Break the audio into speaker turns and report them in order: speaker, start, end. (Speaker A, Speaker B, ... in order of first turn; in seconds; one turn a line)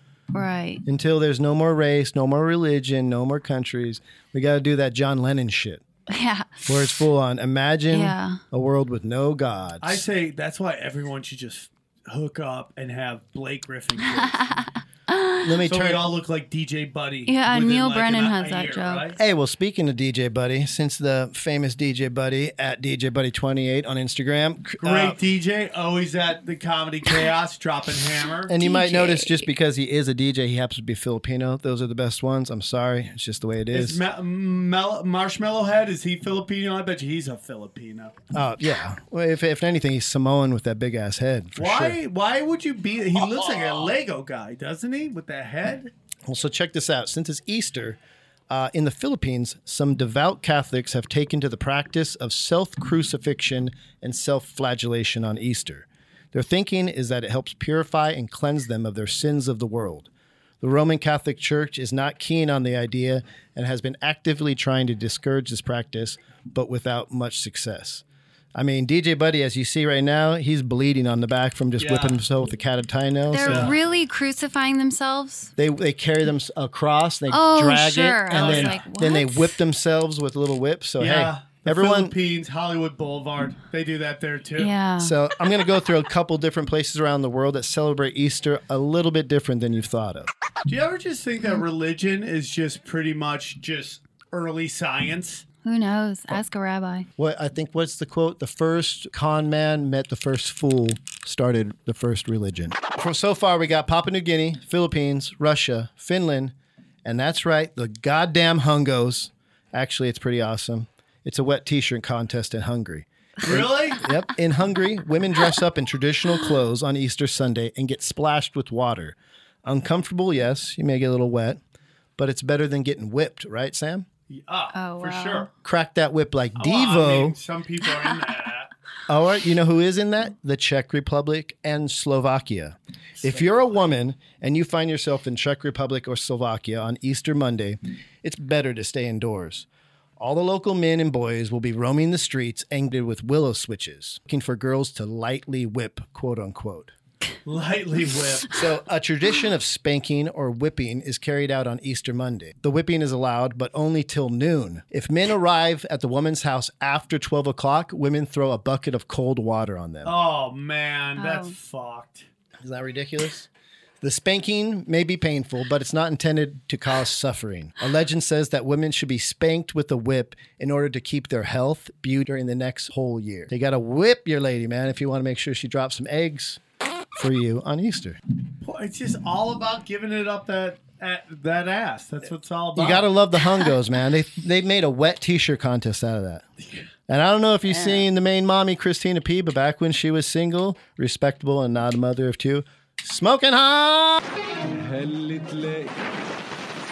Speaker A: 0.3-0.8
Speaker B: 0.8-5.8
Speaker A: 6.1-6.8
Speaker B: 6.7-10.0
Speaker A: 7.9-8.4
Speaker C: 9.8-14.5
Speaker A: 14.3-15.6
Speaker B: 15.4-16.1
Speaker C: 15.6-19.2
Speaker A: 17.3-19.1
Speaker B: 19.2-25.2
Speaker C: 24.8-28.6
Speaker B: 28.5-34.0
Speaker A: 28.6-29.5
Speaker C: 33.7-38.1
Speaker B: 38.3-42.0
Speaker C: 41.6-45.9
Speaker B: 46.3-60.1
Speaker B: 60.6-68.0
Speaker B: 68.5-73.8
Speaker C: 71.8-72.2
Speaker A: 73.3-75.5
Speaker C: 73.4-73.8
Speaker B: 75.6-82.1
Speaker A: 77.3-79.6
Speaker C: 78.3-78.8
Speaker C: 81.0-84.7
Speaker A: 84.6-85.2
Speaker B: 85.0-90.3
Speaker C: 90.7-95.5
Speaker A: 95.6-97.1
Speaker B: 97.2-106.5
Speaker B: 107.0-121.6
Speaker C: 113.4-114.0
Speaker B: 122.2-124.1
Speaker C: 124.3-125.5
Speaker A: 124.7-125.5
Speaker B: 125.6-127.4
Speaker C: 126.6-128.7
Speaker B: 129.1-139.7
Speaker B: 140.2-146.9
Speaker C: 147.5-148.5
Speaker B: 148.5-160.1
Speaker C: 160.1-162.3
Speaker A: 161.2-161.6
Speaker B: 162.6-163.5
Speaker B: 164.0-176.6
Speaker B: 177.2-178.2
Speaker C: 178.6-183.1
Speaker B: 182.8-186.4
Speaker B: 187.1-194.2
Speaker A: 187.7-188.1
Speaker C: 194.9-195.7